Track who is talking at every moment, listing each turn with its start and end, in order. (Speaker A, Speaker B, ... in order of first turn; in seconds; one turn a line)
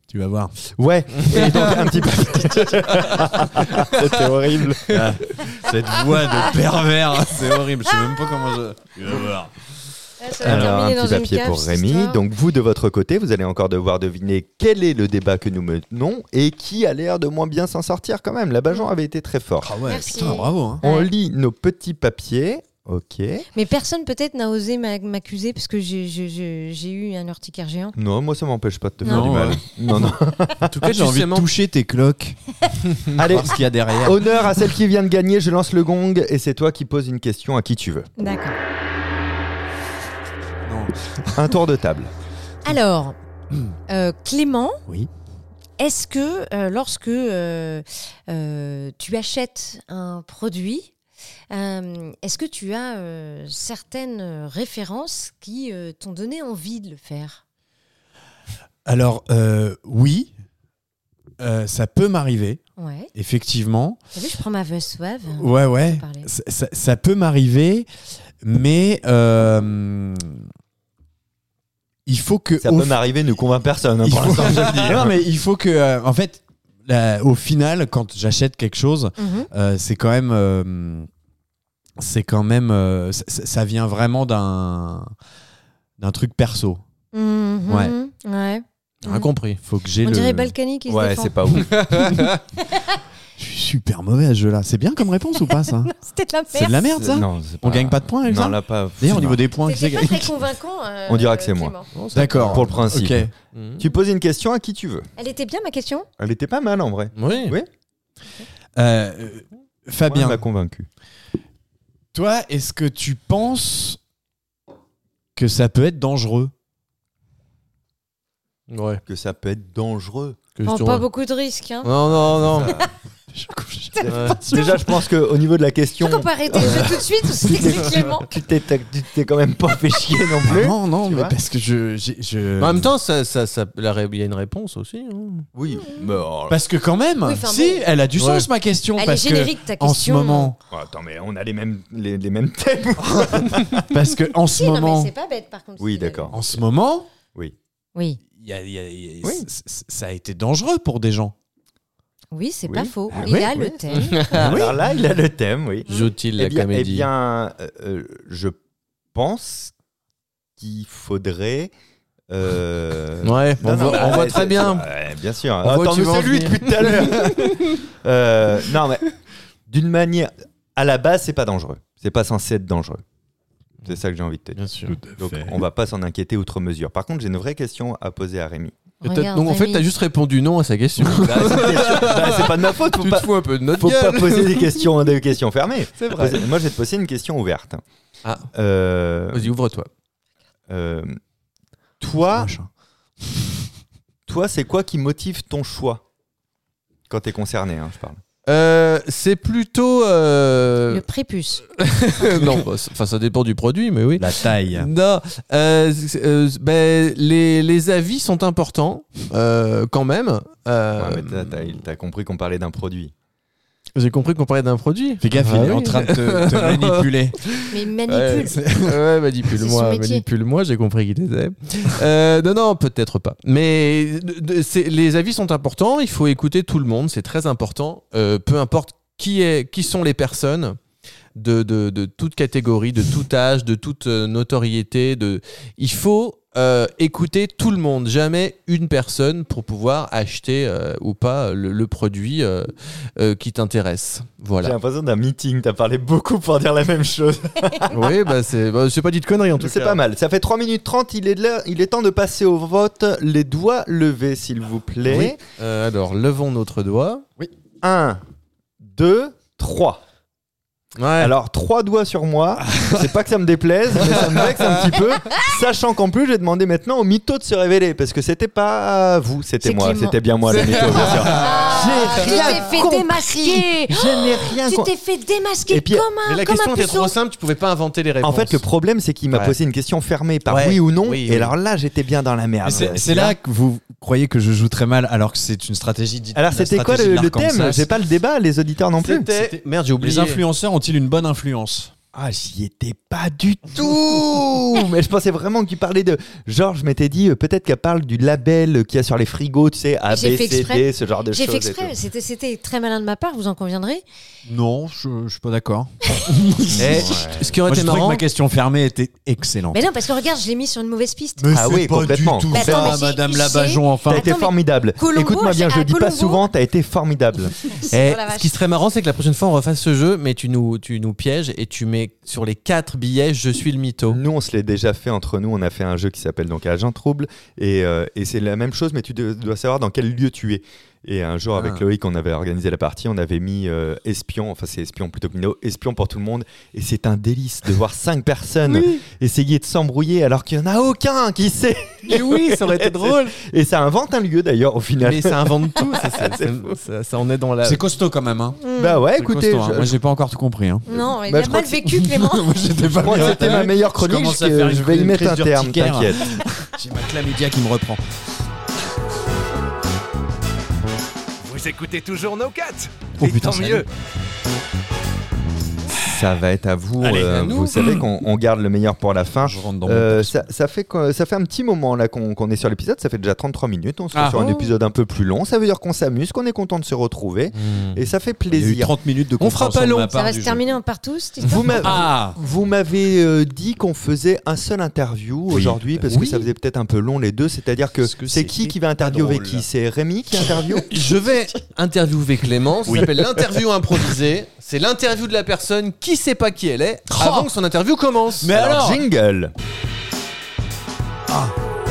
Speaker A: 0.1-0.6
Speaker B: 0.8-4.9
Speaker C: 1.2-1.9
Speaker A: 1.4-1.9
Speaker C: 3.7-5.2
Speaker A: 4.9-9.5
Speaker D: 10.2-12.2
Speaker B: 10.4-19.8
Speaker A: 10.4-10.7
Speaker A: 19.6-20.8
Speaker D: 19.9-21.1
Speaker B: 20.8-23.5
Speaker D: 23.5-28.0
Speaker B: 28.0-30.7
Speaker D: 29.0-29.3
Speaker A: 29.1-29.6
Speaker C: 30.7-31.5
Speaker A: 30.7-32.4
Speaker A: 33.0-34.2
Speaker B: 33.1-38.1
Speaker D: 38.2-38.6
Speaker A: 40.7-41.4
Speaker B: 41.3-42.1
Speaker D: 42.6-43.2
Speaker D: 43.9-44.8
Speaker D: 45.8-50.9
Speaker D: 51.5-57.4
Speaker A: 58.9-60.3
Speaker A: 61.4-62.6
Speaker D: 62.8-63.1
Speaker A: 63.1-64.0
Speaker D: 64.1-66.3
Speaker A: 65.4-67.9
Speaker A: 68.4-70.5
Speaker A: 72.1-73.0
Speaker B: 72.6-75.2
Speaker A: 74.0-81.1
Speaker D: 79.2-79.5
Speaker A: 82.0-85.1
Speaker A: 86.0-86.8
Speaker D: 87.1-89.3
Speaker A: 87.7-87.9
Speaker C: 89.0-89.6
Speaker A: 89.6-90.5
Speaker D: 90.0-91.4
Speaker B: 90.9-92.1
Speaker C: 91.6-92.3
Speaker A: 92.0-92.3
Speaker D: 92.6-93.0
Speaker A: 93.4-95.9
Speaker D: 95.4-96.9
Speaker A: 96.5-100.3
Speaker B: 97.0-99.4
Speaker D: 99.6-101.9
Speaker B: 101.1-105.1
Speaker C: 101.9-102.8
Speaker A: 102.1-103.3
Speaker C: 103.5-103.8
Speaker D: 105.2-106.1
Speaker B: 106.2-107.7
Speaker C: 107.2-107.6
Speaker A: 108.8-110.4
Speaker B: 110.1-110.9
Speaker A: 112.1-114.0
Speaker A: 115.4-116.5
Speaker C: 118.7-119.0
Speaker B: 119.1-120.4
Speaker C: 120.6-121.0
Speaker D: 120.7-121.9
Speaker C: 121.8-122.8
Speaker B: 122.3-122.9
Speaker A: 123.3-124.1
Speaker D: 123.9-124.9
Speaker B: 124.0-131.4
Speaker C: 124.1-124.4
Speaker D: 126.0-128.3
Speaker A: 130.4-132.9
Speaker C: 132.6-135.5
Speaker B: 135.5-136.6
Speaker A: 136.5-140.6
Speaker D: 137.2-137.9
Speaker C: 138.2-138.5
Speaker D: 139.0-140.5
Speaker B: 140.7-143.9
Speaker A: 143.1-145.1
Speaker D: 144.5-146.3
Speaker B: 145.8-146.6
Speaker A: 146.3-147.1
Speaker D: 147.9-148.2
Speaker A: 148.3-151.3
Speaker B: 149.2-149.5
Speaker D: 152.3-154.4
Speaker B: 152.7-158.6
Speaker A: 153.2-153.5
Speaker C: 153.9-154.6
Speaker A: 154.3-154.8
Speaker C: 155.9-157.1
Speaker B: 159.1-159.7
Speaker B: 160.6-161.7
Speaker B: 162.3-169.1
Speaker C: 163.2-164.9
Speaker C: 165.6-167.8
Speaker B: 169.7-173.0
Speaker B: 173.8-174.6
Speaker C: 174.6-175.0
Speaker A: 174.9-175.6
Speaker B: 175.2-178.8
Speaker D: 179.0-179.9
Speaker C: 179.0-184.9
Speaker B: 181.2-187.8
Speaker C: 186.0-186.5
Speaker B: 188.5-189.5
Speaker C: 189.3-189.9
Speaker B: 190.7-191.2
Speaker B: 192.0-192.5
Speaker A: 192.3-192.7
Speaker B: 194.3-196.0
Speaker B: 197.1-198.2
Speaker C: 198.5-201.0
Speaker D: 200.9-201.6
Speaker C: 201.8-211.7
Speaker A: 202.3-202.6
Speaker A: 204.2-204.9
Speaker B: 211.0-213.1
Speaker C: 213.9-217.1
Speaker A: 215.2-217.7
Speaker D: 217.7-218.6
Speaker C: 218.1-230.8
Speaker A: 218.6-219.0
Speaker D: 219.6-220.2
Speaker C: 231.4-244.8
Speaker B: 244.6-248.1
Speaker C: 247.9-250.0
Speaker B: 249.6-255.4
Speaker C: 255.2-257.2
Speaker B: 257.8-258.2
Speaker B: 258.8-260.0
Speaker C: 261.0-261.3
Speaker B: 261.2-274.9
Speaker A: 262.7-263.0
Speaker D: 269.6-277.1
Speaker C: 270.5-271.7
Speaker B: 275.7-276.1
Speaker C: 276.2-278.6
Speaker B: 278.2-283.4
Speaker C: 280.5-281.5
Speaker A: 282.6-287.9
Speaker C: 282.7-282.9
Speaker B: 286.4-289.3
Speaker C: 289.0-290.4
Speaker A: 290.0-291.9
Speaker B: 292.1-302.0
Speaker D: 300.1-304.0
Speaker A: 304.5-309.9
Speaker B: 306.8-307.6
Speaker C: 306.8-308.2
Speaker D: 309.7-311.5
Speaker A: 311.4-314.3
Speaker B: 311.5-313.1
Speaker D: 312.5-316.4
Speaker B: 314.1-317.6
Speaker D: 317.7-318.5
Speaker C: 317.9-324.2
Speaker B: 324.1-346.8
Speaker C: 342.1-343.4
Speaker C: 345.0-347.8
Speaker A: 347.6-348.6
Speaker D: 348.6-349.0
Speaker B: 348.8-350.0
Speaker A: 349.2-351.0
Speaker D: 350.9-352.6
Speaker B: 351.2-351.8
Speaker A: 351.7-358.0
Speaker B: 353.0-356.3
Speaker E: 361.4-363.9
Speaker A: 363.2-363.9
Speaker B: 366.0-378.9
Speaker C: 367.0-368.0
Speaker A: 369.4-370.4
Speaker A: 374.1-374.6
Speaker D: 374.3-374.7
Speaker C: 377.6-378.0
Speaker A: 378.5-380.7
Speaker C: 379.4-380.1
Speaker D: 380.1-382.0
Speaker B: 381.4-391.0
Speaker A: 381.6-382.4
Speaker A: 385.5-386.4
Speaker A: 388.0-389.6
Speaker C: 390.9-398.8
Speaker A: 392.9-393.1
Speaker A: 397.1-397.5
Speaker A: 398.4-399.0
Speaker B: 398.6-399.5